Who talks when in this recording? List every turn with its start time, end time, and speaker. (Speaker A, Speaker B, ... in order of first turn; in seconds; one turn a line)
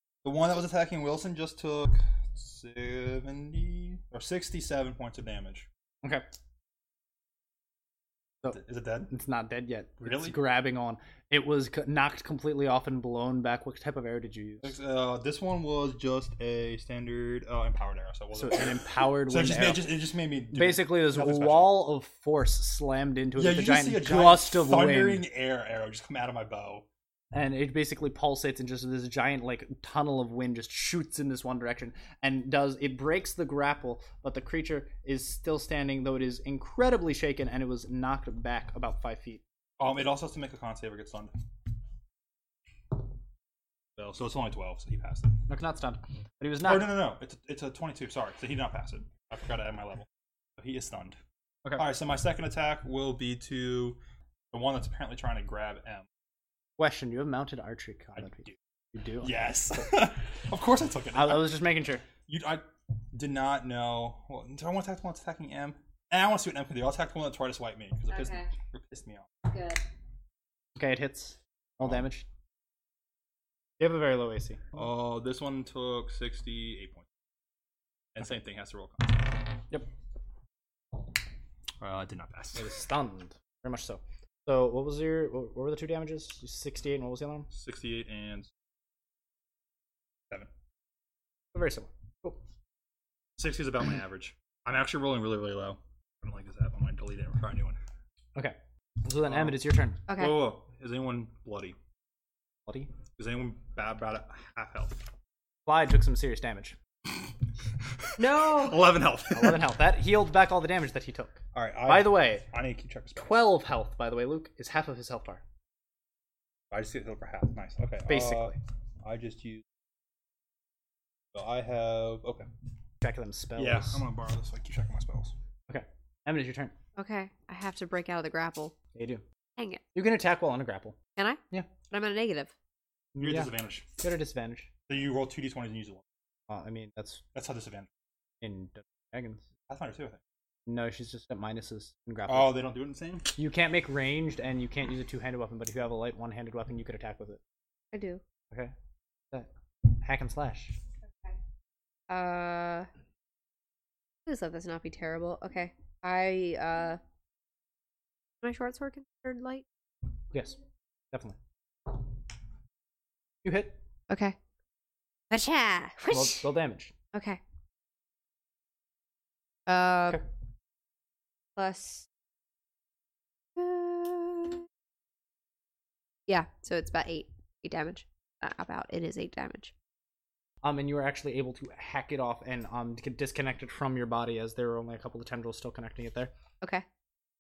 Speaker A: 0.2-5.7
Speaker A: 8.5-9.1
Speaker B: 9.1-14.7
Speaker A: 10.0-10.4
Speaker A: 14.6-21.8
Speaker B: 18.3-19.9
Speaker B: 20.5-25.2
Speaker A: 23.4-26.9
Speaker B: 27.3-39.4
Speaker A: 39.8-41.3
Speaker A: 44.0-45.5
Speaker B: 45.5-47.0
Speaker A: 46.6-51.2
Speaker A: 51.8-54.0
Speaker A: 54.5-56.1
Speaker B: 56.8-59.4
Speaker A: 59.2-61.5
Speaker B: 61.1-62.0
Speaker A: 62.3-69.3
Speaker C: 68.1-68.5
Speaker C: 69.5-69.8
Speaker B: 70.8-72.3
Speaker B: 73.8-74.6
Speaker A: 74.7-77.1
Speaker A: 78.2-79.5
Speaker A: 81.8-82.7
Speaker B: 82.6-87.5
Speaker A: 87.5-88.5
Speaker B: 91.5-92.4
Speaker A: 93.4-97.8
Speaker B: 98.4-100.0
Speaker A: 99.3-101.8
Speaker C: 100.1-100.5
Speaker B: 102.7-102.9
Speaker A: 103.2-105.1
Speaker B: 105.7-106.8
Speaker A: 108.0-109.7
Speaker C: 108.2-108.9
Speaker B: 109.3-112.5
Speaker A: 111.5-113.5
Speaker B: 113.2-115.4
Speaker A: 116.7-119.6
Speaker B: 118.1-118.6
Speaker A: 121.3-122.5
Speaker B: 123.0-124.0
Speaker A: 123.6-125.3
Speaker B: 125.7-126.8
Speaker C: 127.0-128.8
Speaker B: 128.9-129.2
Speaker C: 129.6-129.8
Speaker B: 129.9-131.0
Speaker C: 131.2-132.5
Speaker B: 133.2-134.7
Speaker A: 133.2-133.9
Speaker A: 134.9-136.0
Speaker B: 136.5-137.2
Speaker A: 137.3-137.9
Speaker B: 138.4-139.5
Speaker A: 139.7-140.2
Speaker B: 140.7-142.6
Speaker A: 142.3-143.3
Speaker B: 143.4-147.4
Speaker C: 147.9-148.2
Speaker B: 149.3-150.8
Speaker C: 152.1-152.9
Speaker C: 154.3-157.0
Speaker C: 158.4-159.7
Speaker B: 160.3-160.6
Speaker B: 161.1-161.4
Speaker B: 163.4-163.8
Speaker C: 164.1-164.4
Speaker C: 165.3-166.5
Speaker B: 166.1-166.9
Speaker C: 167.1-167.4
Speaker C: 169.7-170.2
Speaker C: 171.6-172.1
Speaker C: 173.6-174.7
Speaker C: 176.3-179.7
Speaker B: 180.6-186.3